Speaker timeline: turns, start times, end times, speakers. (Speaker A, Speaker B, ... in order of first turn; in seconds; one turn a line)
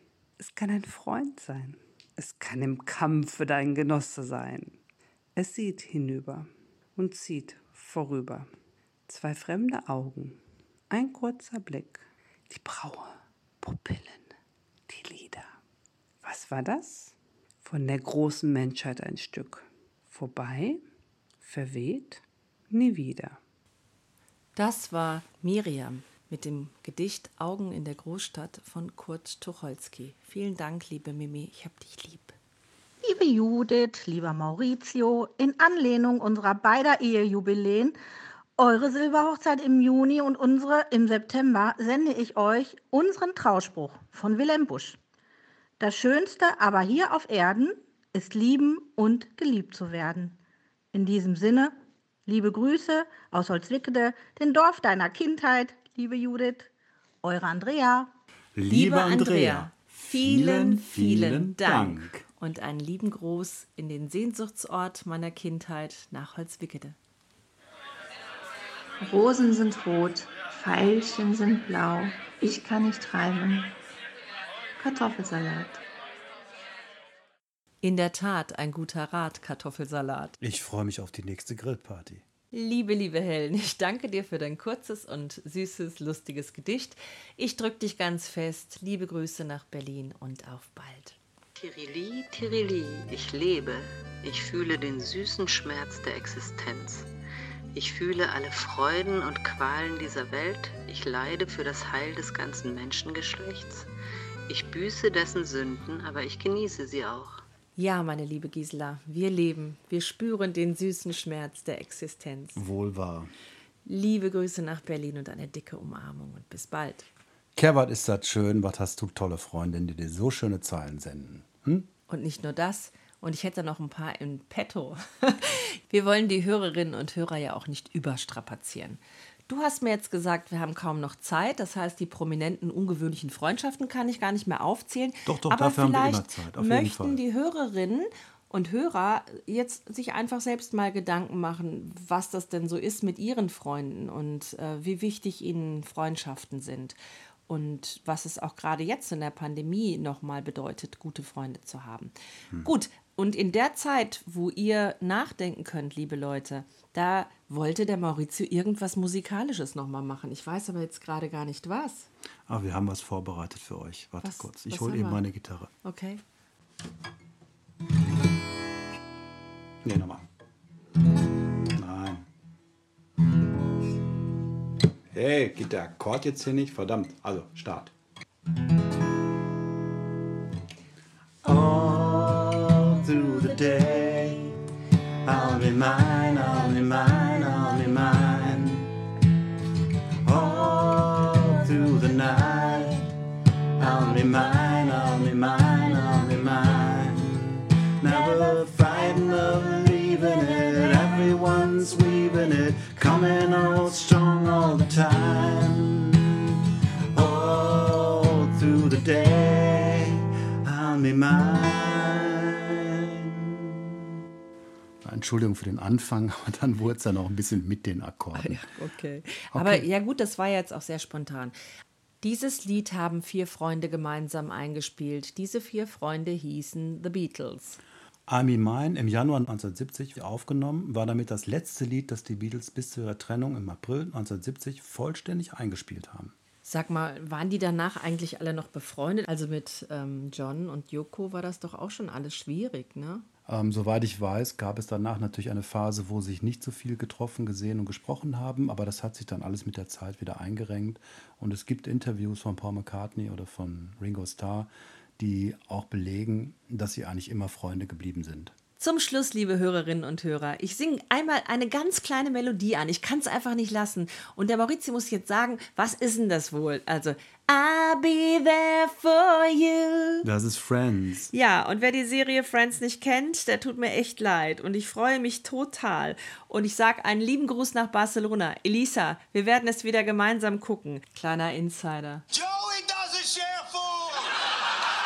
Speaker A: 0.4-4.8
Speaker A: 5.4-8.5
Speaker A: 9.1-14.3
Speaker A: 14.9-15.6
Speaker A: 16.2-20.8
Speaker A: 21.4-23.4
Speaker B: 24.6-32.4
Speaker C: 33.0-38.0
Speaker C: 38.6-45.0
Speaker C: 45.8-50.4
Speaker C: 50.9-51.7
Speaker C: 52.2-56.7
Speaker C: 57.2-58.1
Speaker D: 58.5-62.2
Speaker B: 58.7-67.0
Speaker E: 69.0-73.8
Speaker E: 74.8-75.8
Speaker B: 77.8-80.3
Speaker D: 80.4-82.2
Speaker B: 82.5-91.2
Speaker F: 91.6-97.1
Speaker F: 97.7-103.9
Speaker F: 104.5-107.4
Speaker B: 107.8-112.6
Speaker D: 112.5-113.3
Speaker B: 113.9-117.1
Speaker D: 117.6-121.9
Speaker B: 122.1-147.0
Speaker D: 135.2-137.2
Speaker B: 147.5-162.1
Speaker D: 162.5-165.7
Speaker B: 164.2-165.2
Speaker B: 165.8-166.2
Speaker D: 169.8-170.2
Speaker D: 171.7-172.2
Speaker D: 175.1-177.9
Speaker D: 181.4-184.5
Speaker D: 185.2-188.9
Speaker D: 190.2-193.1
Speaker D: 193.8-206.6
Speaker D: 207.1-213.7
Speaker D: 215.0-218.6
Speaker B: 218.3-221.6
Speaker D: 219.5-219.8
Speaker B: 222.2-227.8
Speaker D: 228.3-236.3
Speaker B: 236.6-243.2
Speaker D: 243.5-258.5
Speaker B: 258.8-270.2
Speaker D: 270.2-271.3
Speaker B: 271.3-282.2
Speaker D: 282.3-284.2